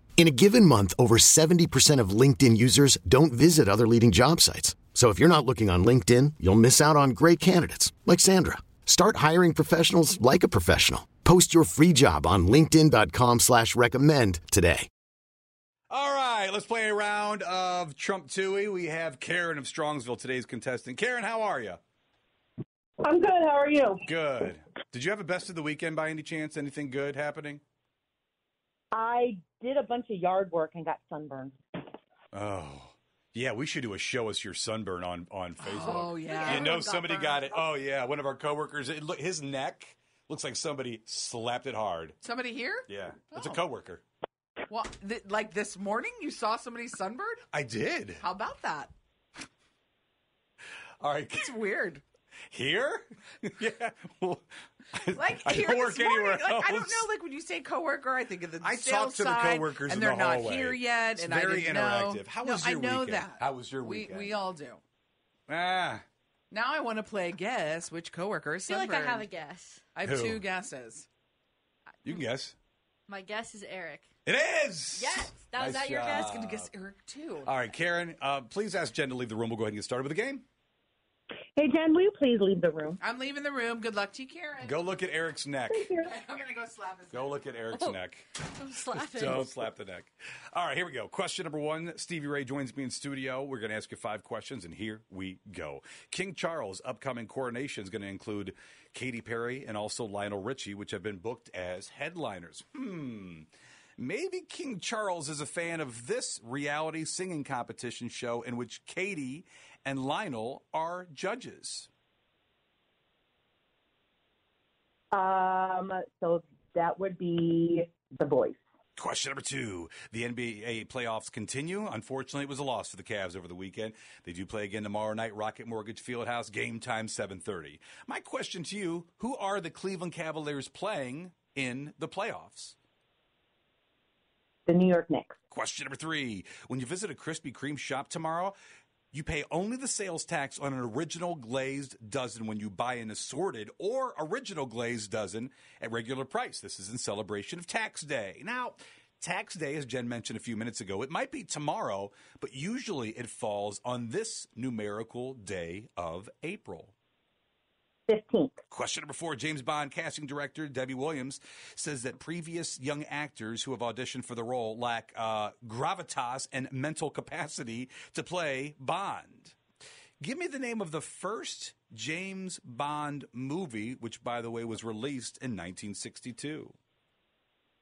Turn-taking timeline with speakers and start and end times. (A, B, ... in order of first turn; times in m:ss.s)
0:00.2-0:14.9 A
0:15.9-0:21.8 B
0:23.0-0:24.0 C
0:24.1-0:27.6 B
0:28.9-0:31.6 C
0:32.3-0:42.2 B
0:35.6-0:37.5 D
0:36.3-0:36.6 E
0:42.2-0:43.6 D
0:42.9-0:44.0 B
0:44.7-0:47.4 D
0:47.5-0:48.2 B
0:48.2-0:48.9 D
0:51.0-0:51.6 B
0:51.3-0:52.0 D
0:52.5-0:57.1 B
0:55.1-1:04.8 D
0:58.6-1:04.5 B
1:05.5-1:06.0 B
1:06.5-1:09.3 D
1:08.6-1:09.8 E
1:10.0-1:11.1 D
1:10.0-1:10.5 B
1:12.0-1:12.6 B
1:13.1-1:14.1 E
1:14.3-1:16.7 B
1:15.0-1:16.3 E
1:16.3-1:17.5 D
1:17.4-1:20.4 B
1:21.6-1:23.0 C
1:23.0-1:24.9 D
1:24.6-1:26.0 B
1:25.7-1:26.1 C
1:26.0-1:27.4 D
1:27.1-1:28.2 B
1:28.6-1:29.5 E
1:28.9-1:51.9 B
1:55.1-1:58.6 C
1:59.0-2:12.8 B
2:14.7-2:15.4 C
2:15.5-2:18.6 B
2:19.1-2:36.9 B
2:38.1-2:38.6 C
2:38.7-2:49.6 B
2:50.2-2:56.8 B